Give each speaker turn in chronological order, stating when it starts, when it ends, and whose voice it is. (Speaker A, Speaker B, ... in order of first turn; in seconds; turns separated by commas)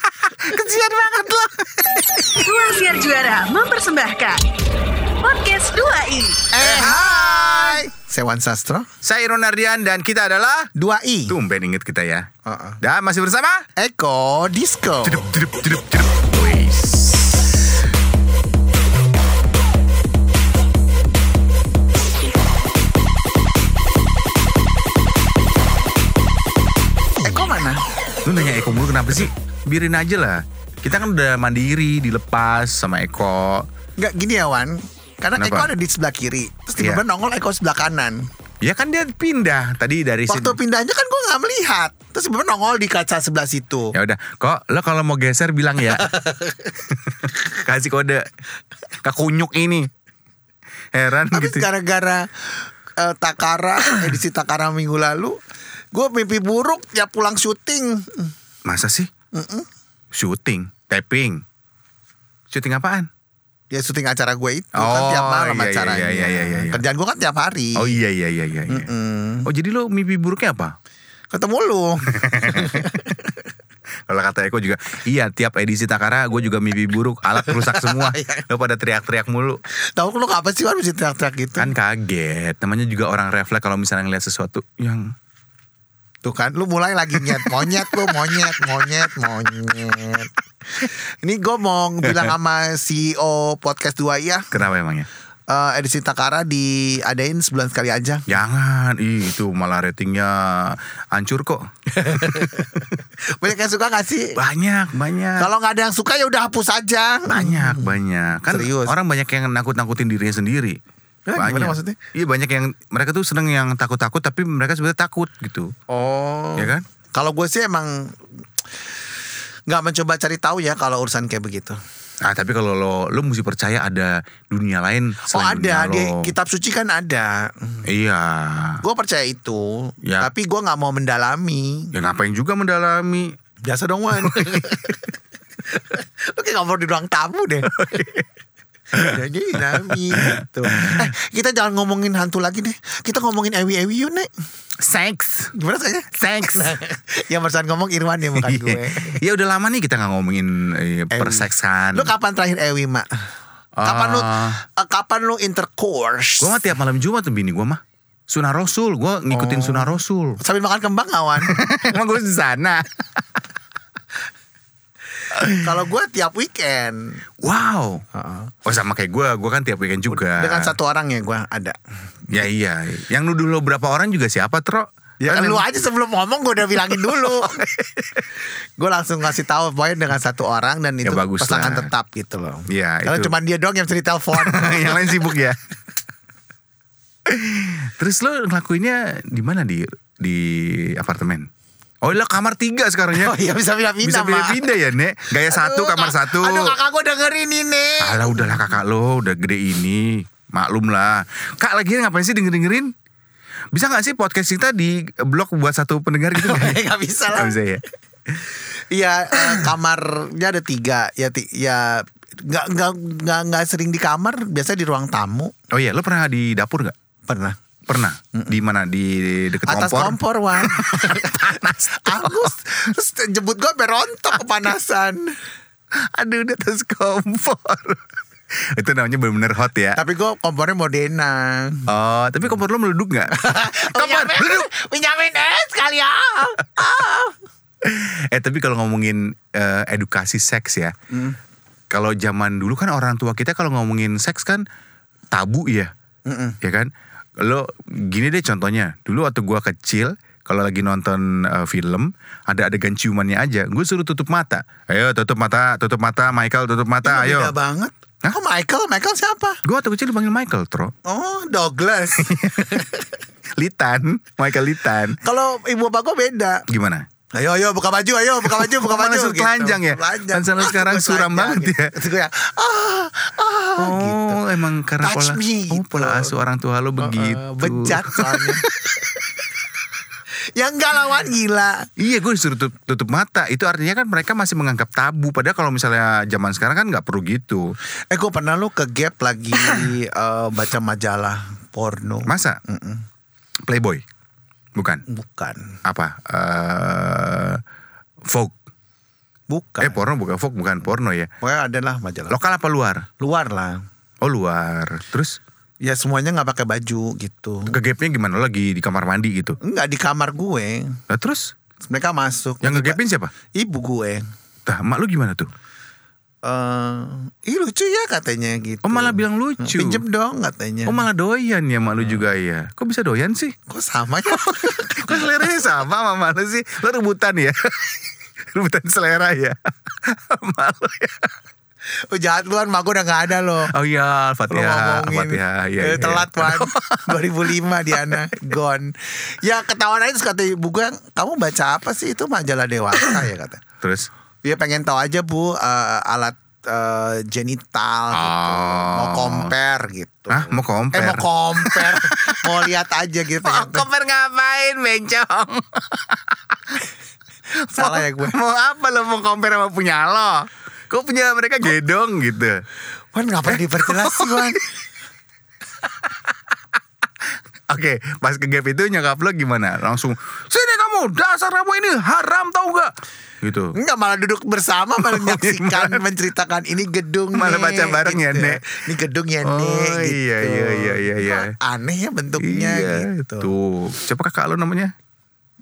Speaker A: 0.4-2.2, Speaker B: 2.4-4.4, Speaker B: 5.2-6.5, Speaker C: 6.5-8.9, Speaker A: 6.6-7.8, Speaker A: 9.0-10.7, Speaker C: 10.8-11.4, Speaker A: 11.3-12.3, Speaker C: 12.4-12.8, Speaker A: 12.8-13.7, Speaker C: 13.8-15.3, Speaker A: 15.0-17.6, Speaker C: 27.2-27.8, Speaker A: 28.2-33.7, Speaker C: 34.0-38.3, Speaker A: 35.4-35.7, Speaker A: 36.8-37.0, Speaker A: 38.6-40.6, Speaker C: 40.3-43.9, Speaker A: 43.9-46.1, Speaker C: 45.9-46.6, Speaker A: 46.9-48.3, Speaker A: 49.0-49.9, Speaker A: 50.9-51.7, Speaker C: 51.3-55.4, Speaker C: 55.9-58.3, Speaker A: 58.7-59.1, Speaker C: 59.3-59.7, Speaker A: 60.1-61.4, Speaker A: 62.5-63.1, Speaker C: 63.7-68.0, Speaker A: 64.8-66.8, Speaker A: 67.8-68.9, Speaker C: 68.7-69.5, Speaker A: 69.5-70.8, Speaker C: 71.3-73.3, Speaker A: 72.1-73.1, Speaker A: 74.1-79.6, Speaker C: 77.4-78.4, Speaker C: 79.9-81.8, Speaker A: 81.6-85.1, Speaker C: 86.2-94.5, Speaker A: 87.3-89.2, Speaker A: 94.5-95.1, Speaker C: 95.5-98.2, Speaker A: 98.3-102.8, Speaker C: 102.0-104.4, Speaker A: 104.4-105.5, Speaker C: 105.4-108.0, Speaker A: 107.3-110.8, Speaker C: 108.5-109.0, Speaker C: 111.3-112.0, Speaker A: 111.4-115.7, Speaker C: 115.9-118.2, Speaker A: 116.6-116.8, Speaker C: 119.7-121.8, Speaker A: 122.2-126.3, Speaker C: 125.2-127.9, Speaker A: 127.9-128.8, Speaker C: 128.8-131.9, Speaker A: 130.0-130.3, Speaker A: 131.9-133.3, Speaker C: 133.6-135.0, Speaker A: 134.2-134.9, Speaker C: 135.7-137.9, Speaker A: 137.8-138.3, Speaker C: 138.9-144.3, Speaker A: 140.2-141.0, Speaker A: 144.8-145.5, Speaker C: 145.5-149.2, Speaker A: 146.2-146.8, Speaker A: 148.4-152.1, Speaker C: 151.1-153.1, Speaker A: 153.8-154.6, Speaker C: 153.8-156.6, Speaker A: 156.4-160.4, Speaker C: 159.3-161.6, Speaker A: 161.4-163.2, Speaker A: 165.3-165.7, Speaker C: 165.6-167.2, Speaker A: 167.4-168.0, Speaker C: 168.1-168.5, Speaker A: 168.7-170.7, Speaker C: 170.1-171.8, Speaker A: 172.3-175.6, Speaker C: 175.2-177.6, Speaker A: 176.9-178.1, Speaker C: 178.8-185.4, Speaker A: 181.1-181.9, Speaker A: 182.7-183.3, Speaker A: 184.3-185.6, Speaker A: 187.3-191.5, Speaker A: 192.0-193.3, Speaker C: 193.1-194.7, Speaker A: 194.0-196.8, Speaker C: 195.3-198.8, Speaker A: 198.0-202.9, Speaker A: 203.7-207.8, Speaker C: 206.3-207.6, Speaker C: 208.5-215.5, Speaker A: 215.7-216.9, Speaker C: 217.3-217.6, Speaker A: 217.9-222.5, Speaker C: 218.3-218.6, Speaker C: 219.7-225.4, Speaker A: 225.9-228.0, Speaker A: 228.6-230.0, Speaker C: 230.0-231.9, Speaker A: 231.9-234.7, Speaker C: 233.3-237.4, Speaker A: 237.8-240.9, Speaker C: 241.1-241.4, Speaker A: 241.9-244.6, Speaker A: 245.3-245.9, Speaker C: 246.3-246.6, Speaker A: 246.6-246.9, Speaker A: 247.4-257.5, Speaker C: 257.0-259.6, Speaker A: 259.6-260.9, Speaker C: 261.1-263.1, Speaker A: 262.2-262.9, Speaker A: 263.6-265.2, Speaker C: 265.2-266.6, Speaker A: 266.7-267.1, Speaker C: 267.3-274.4, Speaker A: 268.4-271.9, Speaker A: 273.8-278.9, Speaker C: 275.0-276.4, Speaker C: 277.0-278.6, Speaker C: 280.6-281.9, Speaker A: 282.0-287.8, Speaker C: 288.1-293.0, Speaker A: 292.3-292.6, Speaker A: 293.7-294.0, Speaker A: 294.8-295.0, Speaker C: 295.1-295.8, Speaker A: 295.9-297.6, Speaker A: 298.3-298.5, Speaker C: 299.5-300.0, Speaker A: 299.8-301.3, Speaker C: 301.4-302.4, Speaker A: 302.3-303.1, Speaker C: 303.2-303.8, Speaker A: 304.2-305.4, Speaker C: 305.8-307.8, Speaker A: 307.7-309.6, Speaker C: 309.6-311.0, Speaker A: 311.1-311.5, Speaker C: 311.9-313.0, Speaker A: 312.6-313.3, Speaker C: 313.5-314.2, Speaker A: 314.6-315.5, Speaker C: 316.4-321.1, Speaker A: 318.8-320.0, Speaker A: 320.9-323.6, Speaker C: 323.7-325.4, Speaker A: 324.3-327.9, Speaker A: 328.5-331.3, Speaker C: 332.1-333.7, Speaker A: 333.7-337.2, Speaker C: 334.5-343.6, Speaker A: 337.9-338.5, Speaker A: 343.8-344.1, Speaker C: 344.4-353.9, Speaker A: 348.1-349.5, Speaker A: 350.3-352.5, Speaker A: 353.4-356.3, Speaker C: 357.7-358.4, Speaker A: 357.7-362.6, Speaker C: 363.1-364.6, Speaker A: 363.5-364.6, Speaker A: 367.7-373.8, Speaker C: 373.8-383.5, Speaker A: 375.0-376.0, Speaker A: 377.3-378.9, Speaker A: 379.4-381.5, Speaker A: 382.4-384.9